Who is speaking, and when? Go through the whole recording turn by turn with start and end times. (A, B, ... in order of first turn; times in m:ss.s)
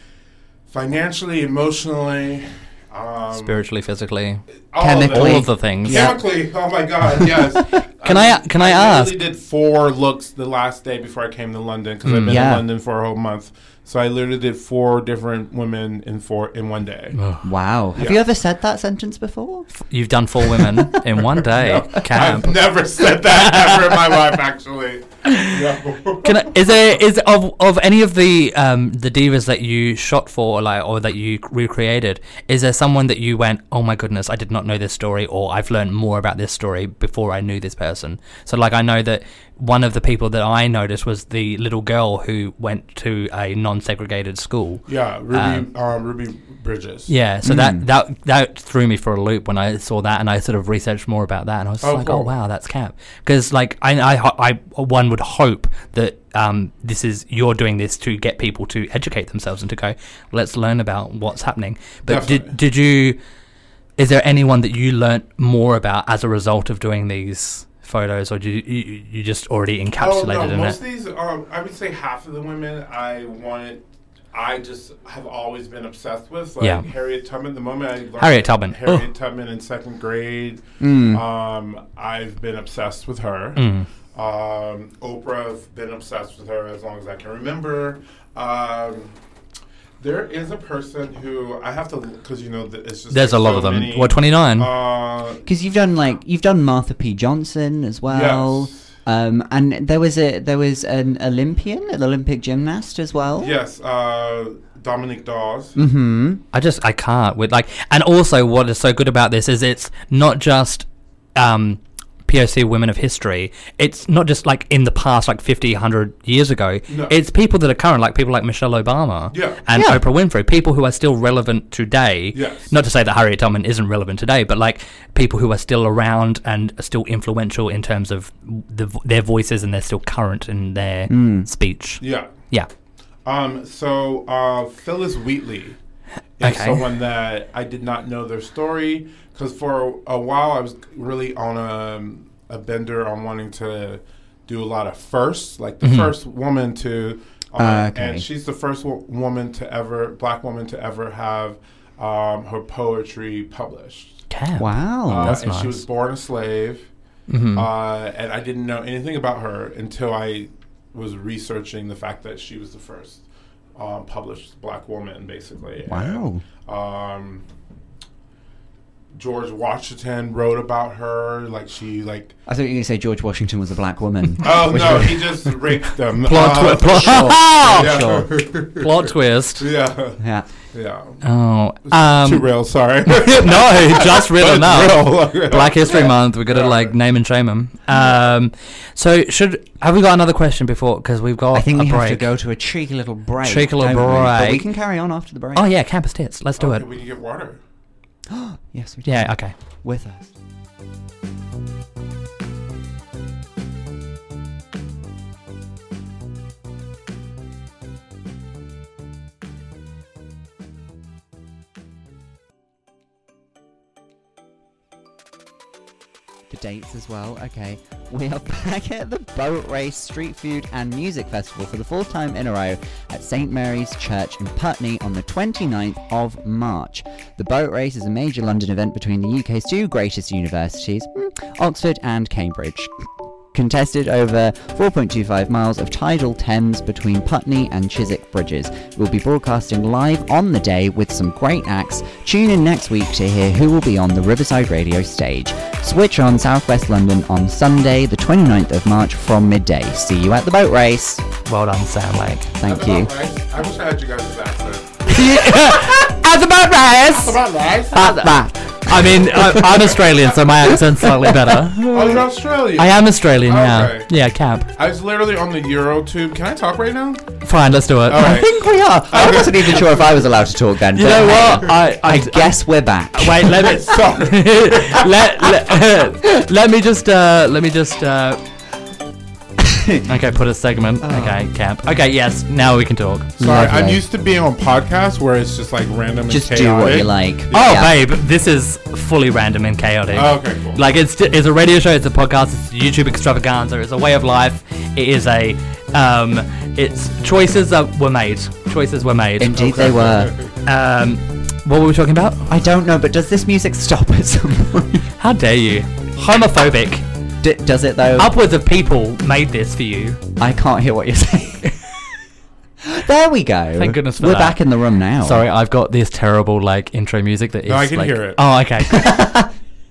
0:00.7-0:03.6 A
0:03.4-0:04.4 B
0:04.7-0:17.2 A
0:04.8-0:06.2 C
0:05.1-0:06.1 B
0:07.1-0:07.6 C
0:08.0-0:09.2 B
0:12.0-0:12.4 B
0:12.2-0:12.6 C
0:17.2-0:17.4 B
0:17.4-0:19.7 C
0:18.0-0:18.2 A
0:19.8-0:22.6 B
0:20.5-0:26.7 A
0:23.3-0:24.0 B
0:25.3-0:25.6 B
0:26.2-0:45.6 B
0:44.9-0:47.1 A
0:47.1-1:03.2 B
0:47.4-0:47.8 C
0:51.8-0:52.3 A
1:02.1-1:02.6 A
1:04.0-1:10.8 B
1:10.0-1:13.8 A
1:14.3-1:29.1 A
1:16.6-1:16.9 B
1:18.2-1:19.0 B
1:20.8-1:21.2 C
1:23.6-1:23.9 B
1:30.0-1:35.4 A
1:33.1-1:34.7 B
1:35.5-1:43.6 C
1:38.1-1:38.9 A
1:43.4-1:45.8 A
1:45.8-1:46.4 C
1:46.5-2:12.7 B
1:56.9-1:57.2 A
1:59.3-1:59.6 A
1:59.8-2:00.0 C
2:02.3-2:02.7 A
2:11.1-2:11.5 C
2:12.0-2:12.3 A
2:13.2-2:15.8 A
2:16.4-2:34.2 A
2:16.4-2:16.8 B
2:25.8-2:26.1 B
2:27.6-2:28.2 C
2:34.3-2:35.8 B
2:34.6-2:35.4 C
2:35.1-2:36.9 A
2:37.3-2:37.7 B
2:37.5-2:43.2 A
2:43.8-2:47.4 A
2:45.9-2:46.4 C
2:49.2-2:52.4 A
2:52.5-2:55.3 C
2:54.4-3:00.2 A
2:56.2-2:59.7 B
2:57.0-2:58.3 C
3:00.2-3:00.5 C
3:00.7-3:01.2 A
3:01.2-3:02.5 B
3:01.9-3:06.9 A
3:03.1-3:12.3 B
3:11.5-3:15.7 C
3:13.4-3:14.6 B
3:15.6-3:16.9 B
3:16.6-3:17.6 A
3:18.3-3:20.3 C
3:19.1-3:19.5 B
3:36.5-3:53.0 C
3:53.5-4:11.2 C
4:11.4-4:12.5 B
4:12.6-4:13.1 C
4:12.6-4:15.1 A
4:15.1-4:17.4 B
4:17.1-4:18.1 A
4:17.9-4:24.7 B
4:17.9-4:19.8 C
4:19.6-4:20.4 A
4:21.9-4:24.1 A
4:24.8-4:27.2 A
4:27.4-4:28.4 B
4:28.1-4:30.2 A
4:28.2-4:34.0 C
4:31.0-4:38.4 B
4:33.6-4:35.2 A
4:39.6-4:40.1 C
4:40.1-4:43.4 B
4:41.0-4:41.4 C
4:43.4-4:44.0 C
4:43.4-4:47.8 A
4:46.3-4:47.9 C
4:47.5-4:59.8 B
4:50.1-4:50.8 A
4:59.4-5:00.4 C
4:59.6-5:00.4 A
5:00.6-5:02.5 B
5:02.5-5:05.1 C
5:05.2-5:07.0 B
5:07.4-5:08.3 C
5:08.2-5:10.2 B
5:10.4-5:11.7 C
5:12.8-5:15.4 C
5:13.8-5:14.6 B
5:15.2-5:19.4 B
5:17.7-5:18.4 A
5:18.9-5:19.5 C